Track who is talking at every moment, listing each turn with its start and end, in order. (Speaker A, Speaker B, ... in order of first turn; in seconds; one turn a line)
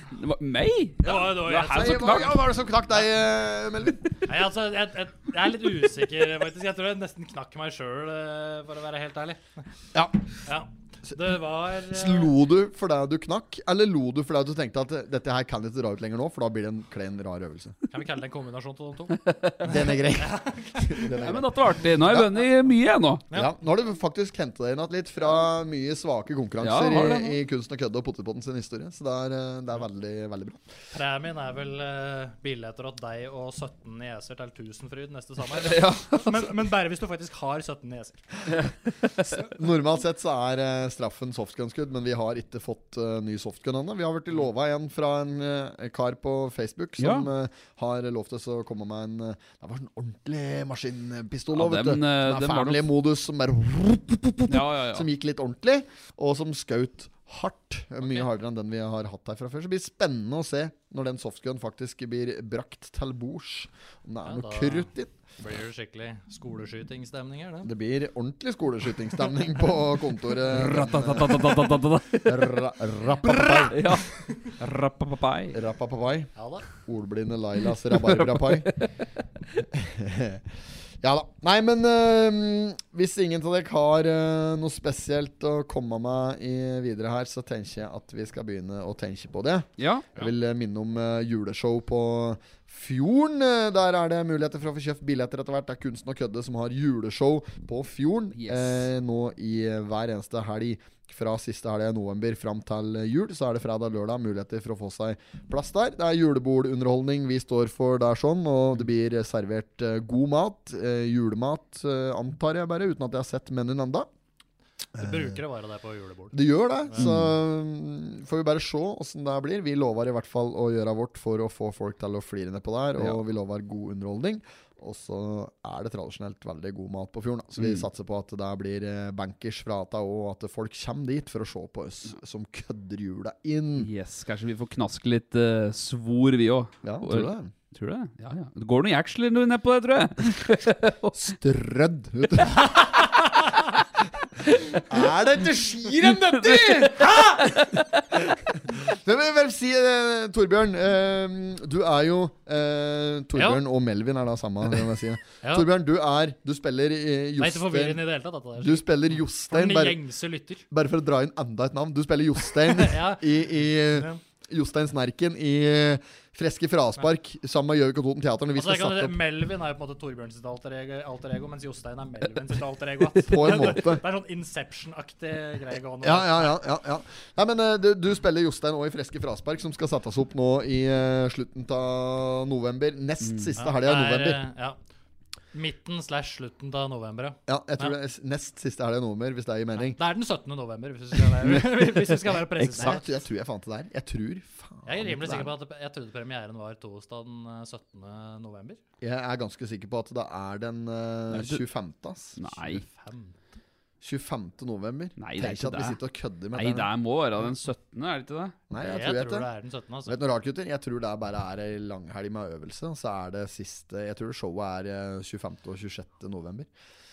Speaker A: 0.1-2.4
Speaker B: 1.0-2.1
Speaker C: 1.3-4.2
Speaker B: 4.3-9.4
Speaker C: 9.9-10.2
Speaker B: 10.4-12.3
Speaker C: 11.9-17.8
Speaker B: 17.9-21.1
Speaker A: 19.2-19.8
Speaker C: 19.6-22.5
Speaker A: 21.2-23.2
Speaker C: 23.3-30.6
Speaker A: 26.6-27.4
Speaker B: 30.9-38.6
Speaker A: 35.6-36.5
Speaker C: 39.4-65.1
Speaker A: 47.0-47.3
Speaker A: 51.5-52.8
Speaker A: 54.5-55.1
Speaker B: 64.2-67.7
Speaker C: 67.6-74.0
Speaker A: 70.4-72.6
Speaker A: 73.2-75.6
Speaker C: 75.5-78.7
Speaker B: 76.4-76.7
Speaker A: 77.9-79.0
Speaker C: 79.7-80.5
Speaker C: 81.0-114.1
Speaker A: 89.8-90.2
Speaker A: 98.3-98.7
Speaker B: 115.0-117.1
Speaker C: 115.0-115.3
Speaker C: 116.3-133.9
Speaker A: 117.0-117.3
Speaker A: 133.8-141.2
Speaker C: 136.8-137.5
Speaker C: 141.1-142.9
Speaker A: 142.8-143.1
Speaker C: 144.9-147.5
Speaker A: 146.1-147.9
Speaker C: 148.6-158.0
Speaker B: 153.4-153.6
Speaker B: 155.4-155.7
Speaker B: 157.4-158.9
Speaker C: 158.6-160.0
Speaker B: 159.5-160.6
Speaker C: 160.7-169.2
Speaker B: 162.7-164.2
Speaker B: 168.6-176.6
Speaker C: 173.2-174.0
Speaker A: 173.4-173.7
Speaker C: 176.0-184.4
Speaker A: 183.2-183.5
Speaker B: 183.6-184.8
Speaker B: 185.5-188.0
Speaker C: 187.5-190.0
Speaker B: 189.8-193.2
Speaker C: 191.4-192.1
Speaker A: 192.6-193.0
Speaker C: 192.8-195.5
Speaker B: 194.9-198.8
Speaker C: 199.0-202.4
Speaker A: 201.3-201.6
Speaker A: 202.4-202.8
Speaker B: 202.6-203.4
Speaker C: 204.0-206.9
Speaker A: 205.2-206.0
Speaker A: 206.5-208.6
Speaker C: 208.7-209.5
Speaker B: 208.8-210.2
Speaker C: 210.1-216.7